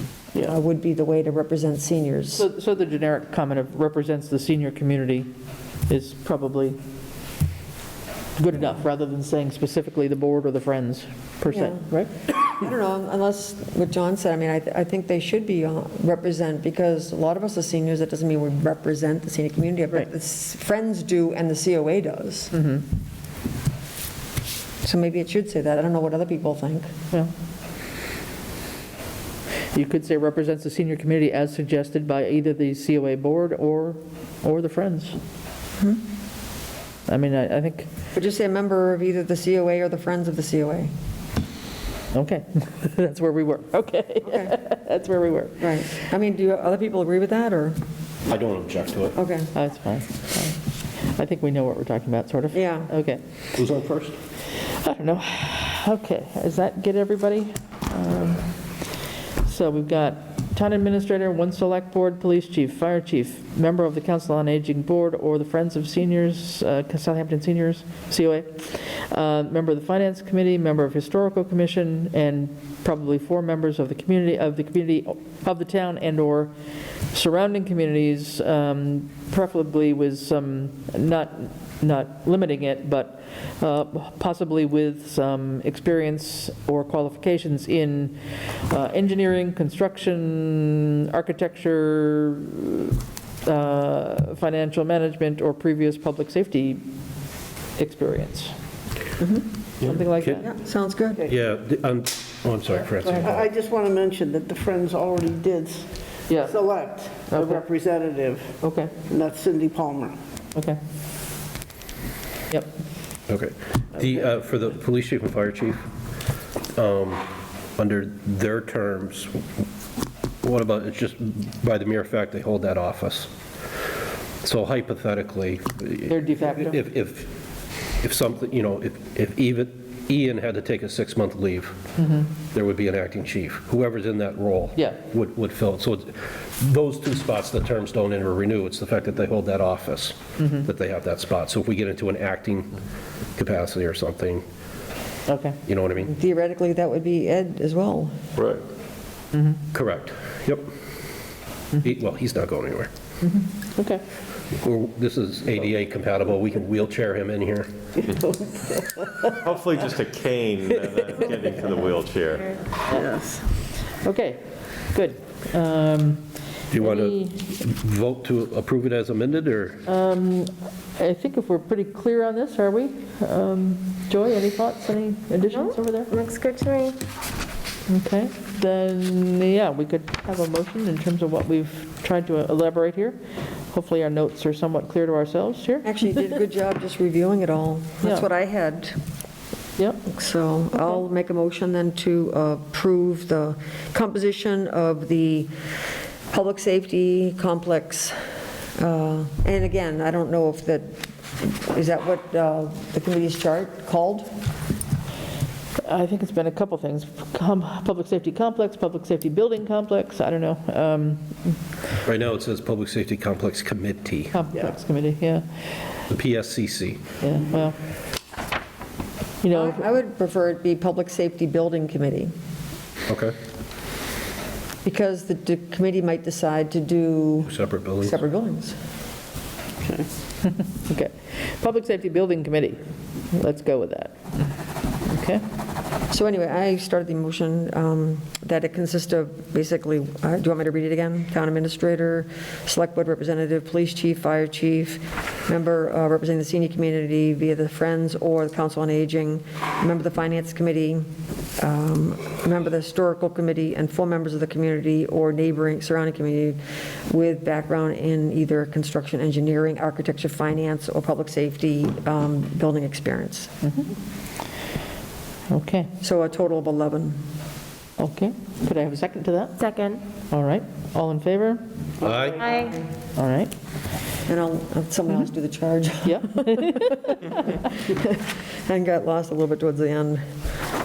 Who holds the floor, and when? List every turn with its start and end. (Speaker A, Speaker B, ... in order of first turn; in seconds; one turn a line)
Speaker A: 0.4-2.5
Speaker B: 2.3-5.3
Speaker B: 5.9-6.8
Speaker B: 8.4-12.4
Speaker A: 11.5-11.8
Speaker A: 12.5-22.5
Speaker B: 22.5-22.8
Speaker A: 24.8-26.9
Speaker B: 29.7-35.2
Speaker B: 37.1-37.9
Speaker A: 38.1-40.9
Speaker B: 42.1-46.0
Speaker A: 44.2-44.5
Speaker A: 45.6-47.8
Speaker C: 48.3-49.2
Speaker A: 49.1-49.5
Speaker B: 49.5-53.2
Speaker A: 52.5-52.9
Speaker C: 53.5-54.2
Speaker B: 54.5-58.5
Speaker B: 59.4-76.5
Speaker B: 77.1-96.8
Speaker B: 97.8-98.5
Speaker A: 99.2-99.4
Speaker B: 99.8-100.5
Speaker C: 99.8-100.4
Speaker A: 100.4-101.2
Speaker C: 101.3-103.5
Speaker D: 103.2-108.5
Speaker B: 106.3-106.6
Speaker B: 107.3-107.6
Speaker B: 108.6-108.9
Speaker D: 109.1-110.1
Speaker C: 113.3-115.9
Speaker C: 116.8-117.2
Speaker C: 117.8-119.4
Speaker C: 120.4-123.3
Speaker C: 124.4-127.3
Speaker B: 126.1-126.8
Speaker C: 128.0-131.7
Speaker B: 132.0-132.3
Speaker C: 132.5-142.7
Speaker B: 134.8-135.0
Speaker B: 140.4-140.7
Speaker C: 143.4-144.4
Speaker B: 145.3-145.6
Speaker C: 145.7-146.1
Speaker A: 146.1-148.1
Speaker C: 149.7-150.7
Speaker C: 151.8-152.9
Speaker B: 153.2-154.0
Speaker C: 154.6-157.7
Speaker D: 158.1-159.3
Speaker E: 159.4-162.6
Speaker D: 162.9-163.5
Speaker B: 164.0-164.4
Speaker B: 164.9-167.4
Speaker C: 166.7-169.8
Speaker B: 169.8-176.1
Speaker F: 175.5-177.0
Speaker B: 177.9-183.2
Speaker B: 183.7-186.3
Speaker A: 185.8-188.9
Speaker B: 189.8-190.1
Speaker A: 190.1-195.5
Speaker A: 196.3-198.1
Speaker A: 198.8-204.3
Speaker B: 205.8-211.6
Speaker C: 212.0-214.3
Speaker B: 214.3-215.4
Speaker C: 216.1-217.0
Speaker B: 217.2-217.8
Speaker B: 219.4-219.8
Speaker A: 219.5-222.3
Speaker C: 223.1-223.3
Speaker A: 224.8-228.7
Speaker C: 227.5-228.1
Speaker D: 229.8-230.1
Speaker B: 230.5-234.4
Speaker B: 235.0-235.4
Speaker A: 236.1-251.1
Speaker A: 251.6-263.5
Speaker B: 263.6-263.9
Speaker B: 265.5-265.9
Speaker A: 266.0-267.2
Speaker B: 268.0-269.7
Speaker F: 269.6-270.0
Speaker B: 270.3-271.6
Speaker C: 272.0-272.6
Speaker F: 272.4-272.8
Speaker B: 273.1-273.5
Speaker A: 274.3-280.2
Speaker B: 276.0-277.6